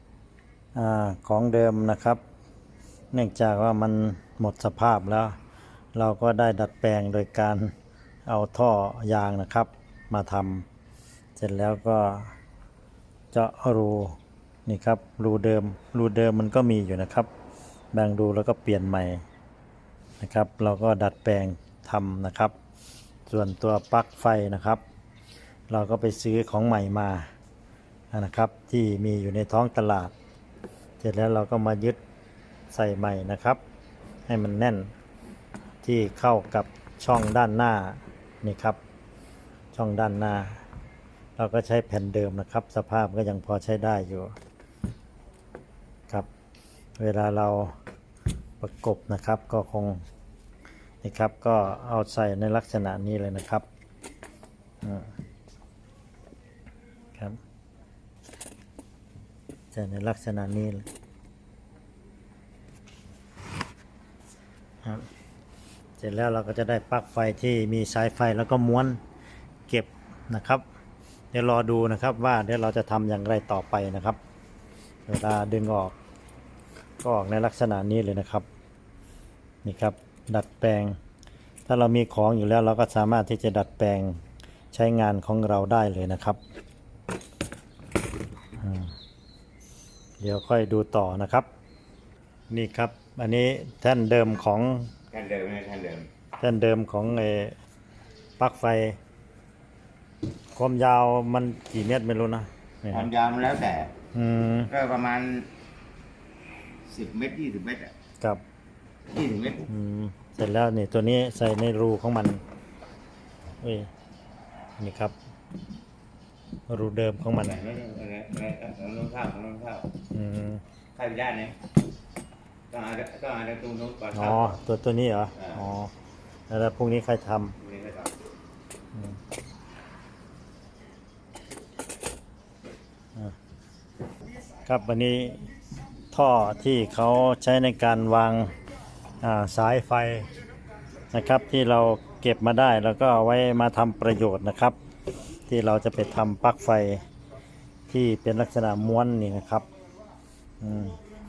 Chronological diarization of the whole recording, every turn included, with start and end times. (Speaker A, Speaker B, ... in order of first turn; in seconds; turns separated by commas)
Speaker A: 0.8-2.2, Speaker A: 3.1-5.4, Speaker A: 6.0-7.7, Speaker A: 8.3-10.7, Speaker A: 11.4-12.3, Speaker A: 13.3-17.3, Speaker A: 17.9-19.2, Speaker A: 20.2-22.5, Speaker A: 23.3-24.8, Speaker A: 25.7-27.3, Speaker A: 28.1-30.1, Speaker A: 31.0-32.0, Speaker A: 32.7-33.6, Speaker A: 34.3-34.9, Speaker A: 35.8-38.8, Speaker A: 39.7-40.6, Speaker A: 41.4-44.3, Speaker A: 47.0-47.8, Speaker A: 48.6-50.0, Speaker A: 51.0-53.6, Speaker A: 54.8-55.1, Speaker A: 59.7-60.9, Speaker A: 66.0-69.0, Speaker A: 69.7-70.6, Speaker A: 71.3-74.2, Speaker A: 75.1-76.0, Speaker A: 77.0-78.5, Speaker A: 79.6-81.0, Speaker A: 81.7-84.2, Speaker A: 84.7-86.4, Speaker A: 88.6-88.9, Speaker A: 90.2-91.5, Speaker A: 92.5-94.9, Speaker B: 95.1-96.1, Speaker A: 96.4-97.6, Speaker A: 98.4-99.0, Speaker A: 100.5-103.1, Speaker B: 102.9-103.9, Speaker A: 104.1-104.7, Speaker B: 104.7-105.5, Speaker B: 106.9-107.9, Speaker B: 109.1-109.7, Speaker A: 109.7-112.4, Speaker A: 113.6-113.9, Speaker A: 114.8-115.2, Speaker A: 116.7-117.6, Speaker B: 117.4-119.9, Speaker A: 120.1-120.6, Speaker B: 121.0-121.6, Speaker B: 122.7-124.6, Speaker A: 124.1-125.9, Speaker A: 126.5-127.6, Speaker B: 127.6-128.1, Speaker A: 134.7-135.5, Speaker A: 136.1-138.5, Speaker A: 139.2-140.3, Speaker A: 141.1-144.8, Speaker A: 145.5-147.0, Speaker A: 147.9-149.7, Speaker A: 150.6-151.0